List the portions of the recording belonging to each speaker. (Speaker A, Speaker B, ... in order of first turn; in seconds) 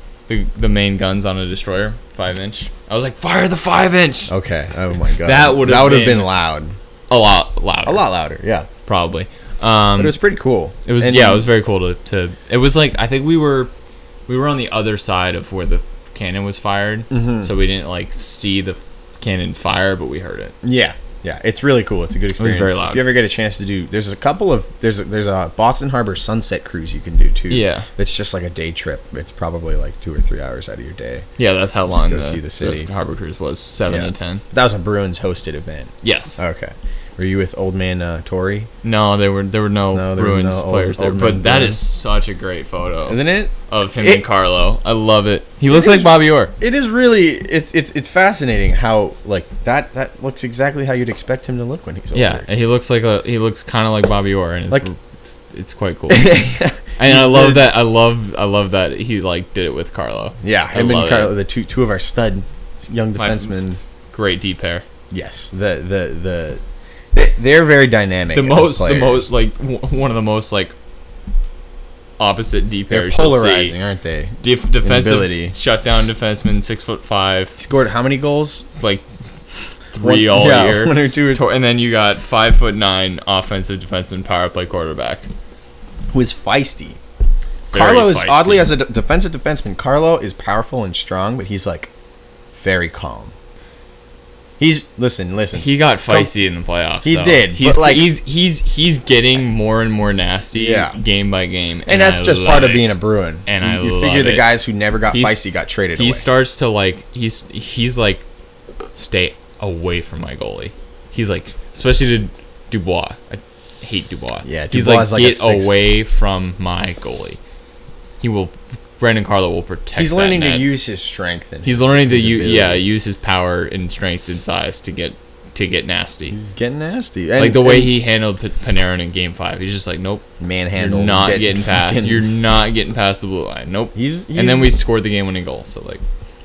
Speaker A: 0.3-4.3, 5.2-6.3, 7.1-8.0, 8.8-10.2, 10.8-13.7, 14.3-20.5, 22.4-23.1, 27.5-27.9, 31.4-34.4, 36.0-36.4, 38.8-46.5, 52.1-61.3, 63.1-64.8, 68.3-70.7, 72.2-73.8, 74.4-77.6, 78.8-79.0, 79.9-85.3, 87.7-88.7, 95.5-104.5, 105.1-108.2, 109.0-117.4, 118.2-120.7, 121.6-126.4, 127.4-136.0
Speaker B: 4.3-6.7, 7.8-8.7, 10.0-11.4, 17.1-17.5, 20.6-31.3, 31.9-32.9, 33.9-38.7, 39.9-41.8, 43.1-44.2, 45.7-52.5, 56.1-57.7, 60.4-63.8, 65.1-66.6, 67.1-69.3, 72.9-75.5, 77.6-78.7, 80.0-81.4, 86.1-87.0, 87.7-91.9, 92.5-93.3, 94.6-96.3, 97.0-98.1, 100.5-101.0, 101.8-106.2, 114.4-115.8, 120.0-122.8, 126.3-127.9, 130.4-132.3, 133.9-134.7